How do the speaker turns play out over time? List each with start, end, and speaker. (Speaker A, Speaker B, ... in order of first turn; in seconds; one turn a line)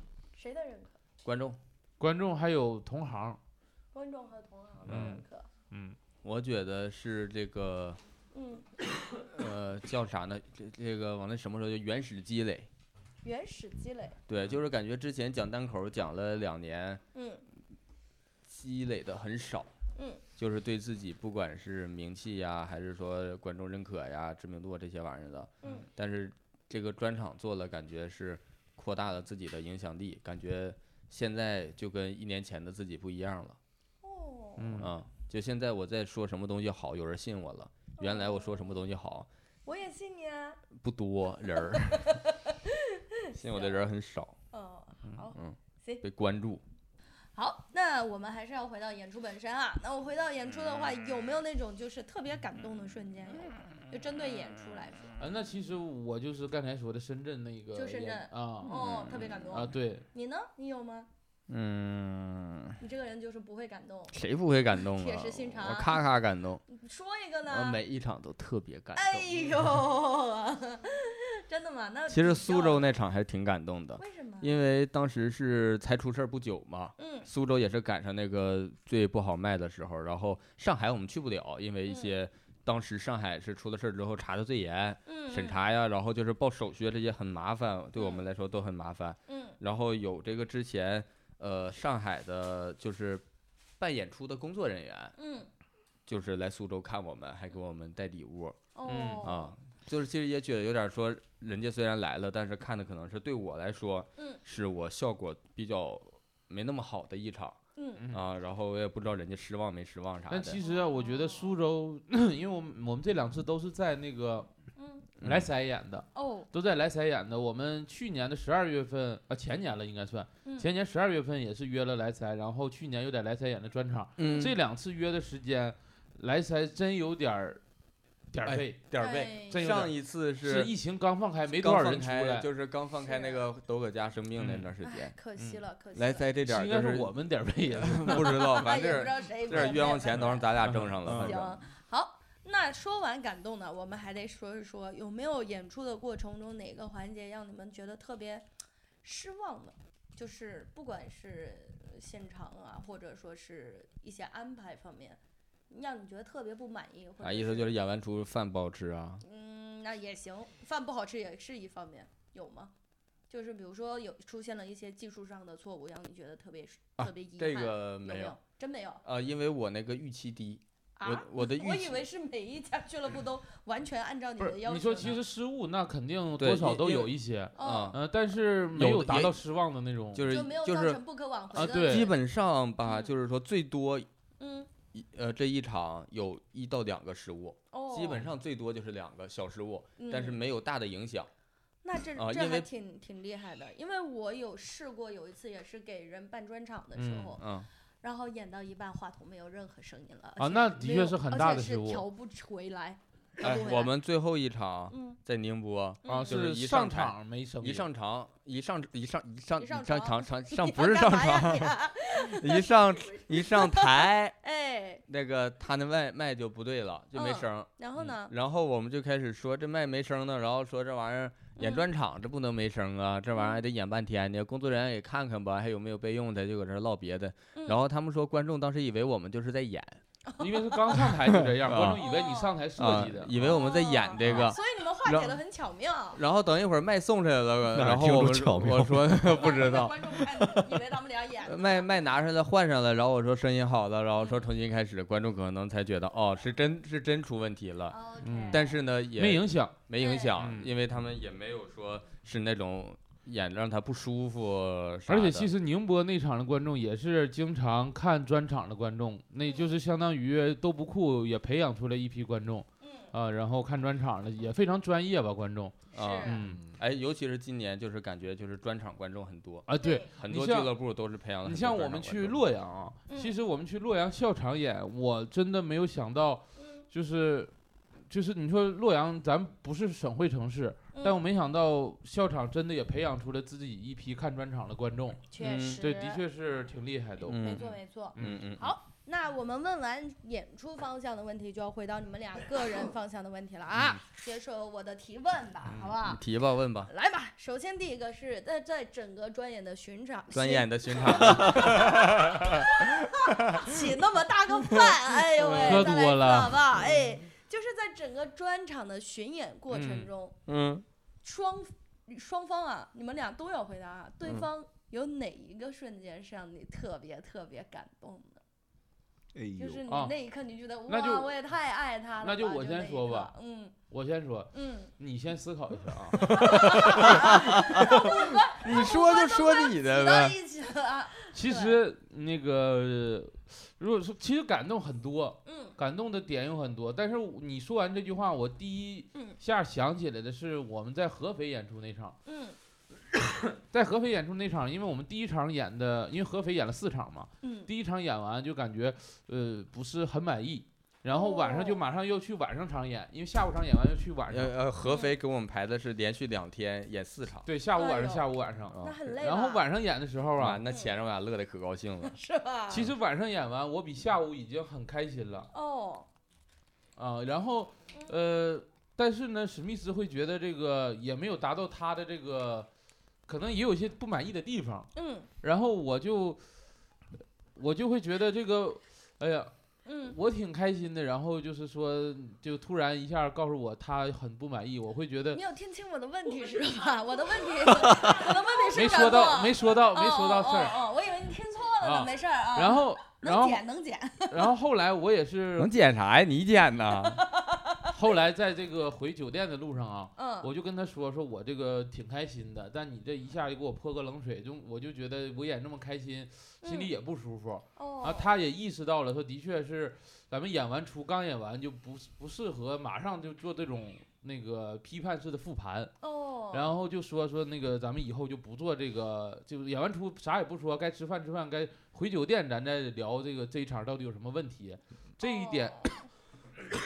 Speaker A: 0.3-1.0
Speaker B: 1.2-1.6
Speaker C: 2.0-3.4
Speaker A: 3.9-5.5
Speaker C: 4.9-6.0
Speaker B: 4.9-5.1
Speaker B: 6.2-8.0
Speaker A: 8.3-8.7
Speaker B: 9.3-12.7
Speaker A: 13.2-14.2
Speaker B: 14.3-17.0
Speaker A: 17.1-17.4
Speaker B: 18.4-19.7
Speaker A: 19.9-20.2
Speaker B: 20.4-33.6
Speaker A: 34.0-34.8
Speaker C: 34.6-34.9
Speaker B: 34.8-39.3
Speaker A: 38.0-38.8
Speaker A: 39.6-40.6
Speaker B: 40.8-42.0
Speaker A: 41.5-43.9
Speaker B: 43.3-44.4
Speaker A: 44.5-46.0
Speaker B: 45.3-46.6
Speaker A: 47.3-55.1
Speaker C: 55.2-58.7
Speaker A: 57.7-61.1
Speaker B: 58.6-59.4
Speaker C: 59.5-60.0
Speaker B: 61.5-62.8
Speaker A: 62.8-64.2
Speaker B: 64.1-66.6
Speaker A: 64.7-66.0
Speaker A: 66.7-67.8
Speaker B: 67.5-69.4
Speaker A: 68.9-72.9
Speaker B: 72.1-93.2
Speaker A: 74.0-74.6
Speaker A: 77.0-77.3
Speaker A: 81.9-82.2
Speaker A: 85.0-85.6
Speaker A: 88.0-88.2
Speaker A: 89.3-89.6
Speaker B: 93.8-95.2
Speaker A: 95.2-95.5
Speaker B: 96.1-98.6
Speaker A: 98.7-99.5
Speaker C: 98.8-99.3
Speaker B: 99.2-107.6
Speaker A: 107.8-108.0
Speaker B: 108.1-110.6
Speaker C: 110.3-114.5
Speaker A: 110.6-111.5
Speaker A: 114.8-115.1
Speaker B: 115.2-115.5
Speaker C: 115.2-127.6
Speaker A: 116.1-116.5
Speaker A: 120.4-120.7
Speaker B: 124.2-124.5
Speaker C: 128.3-128.8
Speaker B: 128.4-130.7
Speaker A: 129.0-129.7
Speaker C: 129.5-132.5
Speaker B: 131.5-135.2
Speaker A: 133.0-133.4
Speaker C: 134.4-134.7
Speaker A: 134.8-136.3
Speaker B: 135.9-137.1
Speaker C: 136.4-138.5
Speaker B: 137.7-141.6
Speaker A: 138.1-140.5
Speaker C: 140.6-141.3
Speaker A: 141.2-148.4
Speaker A: 149.0-155.2
Speaker A: 155.7-157.8
Speaker B: 157.2-159.2
Speaker A: 159.2-162.7
Speaker A: 163.3-169.0
Speaker B: 167.0-168.3
Speaker B: 169.0-172.0
Speaker A: 171.0-175.2
Speaker C: 174.4-180.3
Speaker B: 176.4-178.0
Speaker A: 177.6-177.9
Speaker B: 178.7-179.3
Speaker B: 180.1-181.0
Speaker A: 180.3-182.2
Speaker C: 181.5-182.1
Speaker B: 181.6-184.1
Speaker A: 182.8-183.1
Speaker A: 184.4-184.7
Speaker B: 184.9-191.3
Speaker A: 187.7-188.3
Speaker A: 190.0-190.4
Speaker A: 191.8-197.5
Speaker B: 192.2-192.7
Speaker C: 196.9-197.3
Speaker B: 197.4-197.7
Speaker A: 198.0-203.9
Speaker C: 200.4-202.0
Speaker B: 203.4-214.3
Speaker A: 204.9-205.2
Speaker A: 206.0-206.3
Speaker C: 206.1-207.9
Speaker A: 209.6-215.0
Speaker B: 215.1-230.0
Speaker A: 217.1-218.3
Speaker A: 221.6-221.9
Speaker A: 223.3-223.6
Speaker A: 230.3-230.8
Speaker C: 230.4-233.3
Speaker B: 231.4-232.0
Speaker A: 232.0-236.2
Speaker B: 232.8-235.4
Speaker C: 234.2-234.5
Speaker B: 236.1-240.8
Speaker D: 237.7-239.2
Speaker A: 239.2-241.9
Speaker B: 241.4-248.0
Speaker A: 244.2-244.5
Speaker A: 247.9-248.8
Speaker C: 248.2-248.6
Speaker B: 248.5-255.5
Speaker C: 249.1-249.7
Speaker A: 250.0-250.3
Speaker C: 250.4-250.7
Speaker C: 255.1-266.6
Speaker A: 259.4-259.8
Speaker A: 262.8-263.1
Speaker B: 265.9-272.4
Speaker A: 265.9-266.4
Speaker D: 266.4-266.8
Speaker C: 269.7-270.7
Speaker A: 269.8-270.1
Speaker C: 271.4-277.5
Speaker A: 273.1-273.3
Speaker A: 276.6-276.8
Speaker C: 278.1-285.2
Speaker A: 280.9-281.2
Speaker A: 285.3-286.2
Speaker B: 285.4-285.8
Speaker C: 285.8-288.4
Speaker B: 287.2-288.7
Speaker A: 287.4-296.2
Speaker B: 296.0-296.9
Speaker A: 296.9-310.4
Speaker B: 300.3-302.9
Speaker B: 304.7-305.9
Speaker C: 305.6-306.6
Speaker C: 309.7-310.1
Speaker B: 310.5-310.8
Speaker A: 311.2-318.4
Speaker D: 319.3-319.8
Speaker A: 319.6-323.8
Speaker C: 320.9-321.3
Speaker C: 322.2-323.3
Speaker C: 323.9-326.3
Speaker A: 324.5-324.9
Speaker B: 326.2-330.4
Speaker A: 326.2-331.8
Speaker C: 331.3-342.2
Speaker A: 335.4-335.7
Speaker A: 342.2-342.6
Speaker C: 343.6-354.6
Speaker A: 347.4-347.7
Speaker A: 351.1-351.8
Speaker B: 354.3-357.5
Speaker A: 354.9-355.1
Speaker C: 357.4-360.6
Speaker A: 357.8-359.7
Speaker B: 358.7-359.0
Speaker B: 360.4-362.1
Speaker A: 360.7-360.9
Speaker A: 362.0-362.9
Speaker C: 362.7-365.5
Speaker A: 365.5-366.1
Speaker C: 367.0-372.7
Speaker C: 373.3-374.9
Speaker A: 374.9-375.3
Speaker C: 375.4-376.4
Speaker C: 377.5-379.5
Speaker A: 379.9-380.1
Speaker C: 380.0-385.4
Speaker A: 385.3-394.5
Speaker C: 388.7-390.8
Speaker C: 391.8-393.6
Speaker C: 394.3-395.7
Speaker B: 395.6-397.2
Speaker A: 396.9-397.9
Speaker C: 397.9-415.9
Speaker A: 400.2-400.5
Speaker A: 406.6-406.9
Speaker A: 407.8-408.3
Speaker A: 416.0-416.7
Speaker C: 416.5-425.9
Speaker A: 425.2-426.1